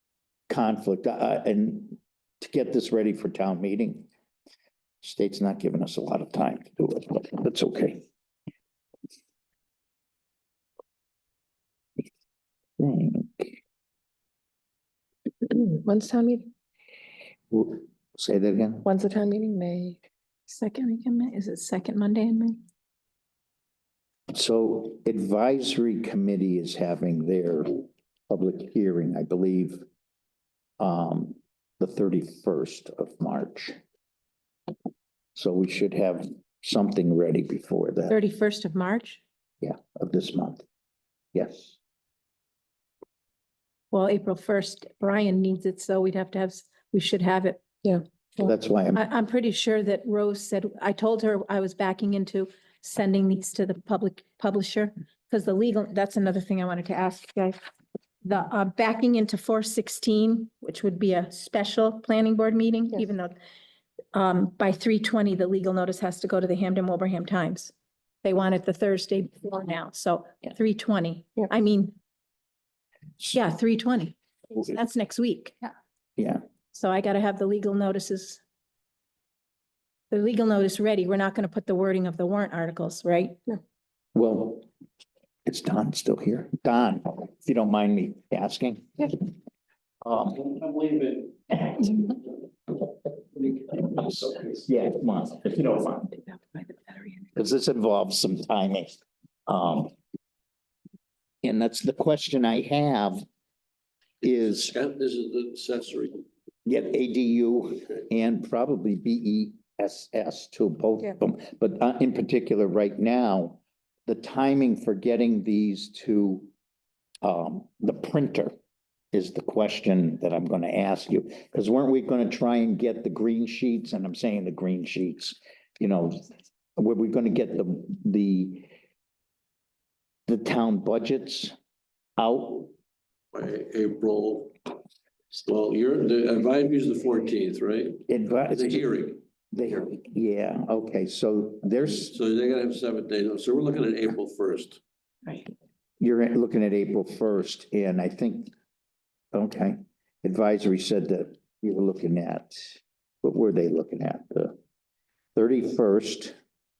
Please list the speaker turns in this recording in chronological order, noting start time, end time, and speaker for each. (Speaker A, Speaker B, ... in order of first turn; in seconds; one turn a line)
Speaker A: 0.5-4.1
Speaker A: 5.0-8.0
Speaker A: 12.8-13.6
Speaker B: 15.4-16.5
Speaker A: 17.5-18.9
Speaker B: 18.8-20.0
Speaker C: 20.5-22.6
Speaker A: 24.3-29.8
Speaker A: 30.8-33.8
Speaker A: 35.3-38.1
Speaker C: 38.1-39.2
Speaker A: 39.6-40.6
Speaker A: 41.3-41.8
Speaker C: 43.9-47.6
Speaker A: 48.4-49.0
Speaker C: 48.9-57.6
Speaker C: 58.2-63.4
Speaker C: 64.1-67.7
Speaker C: 68.2-72.0
Speaker C: 73.2-75.6
Speaker A: 76.2-76.4
Speaker C: 76.7-78.4
Speaker C: 80.1-83.4
Speaker A: 84.1-84.7
Speaker A: 85.4-89.3
Speaker A: 90.0-90.5
Speaker D: 90.4-91.3
Speaker A: 91.6-91.9
Speaker D: 93.4-93.8
Speaker A: 93.9-96.2
Speaker C: 96.3-97.2
Speaker A: 97.3-99.9
Speaker A: 101.4-103.2
Speaker A: 104.2-104.7
Speaker D: 104.2-106.2
Speaker A: 106.7-116.5
Speaker A: 117.2-118.5
Speaker A: 119.1-126.2
Speaker A: 126.8-128.7
Speaker A: 130.3-131.5
Speaker A: 132.2-132.7
Speaker D: 133.3-134.5
Speaker D: 135.3-139.2
Speaker A: 138.1-138.9
Speaker A: 139.5-142.2
Speaker D: 142.1-144.8
Speaker A: 146.0-148.5
Speaker A: 149.3-154.6
Speaker A: 155.3-156.4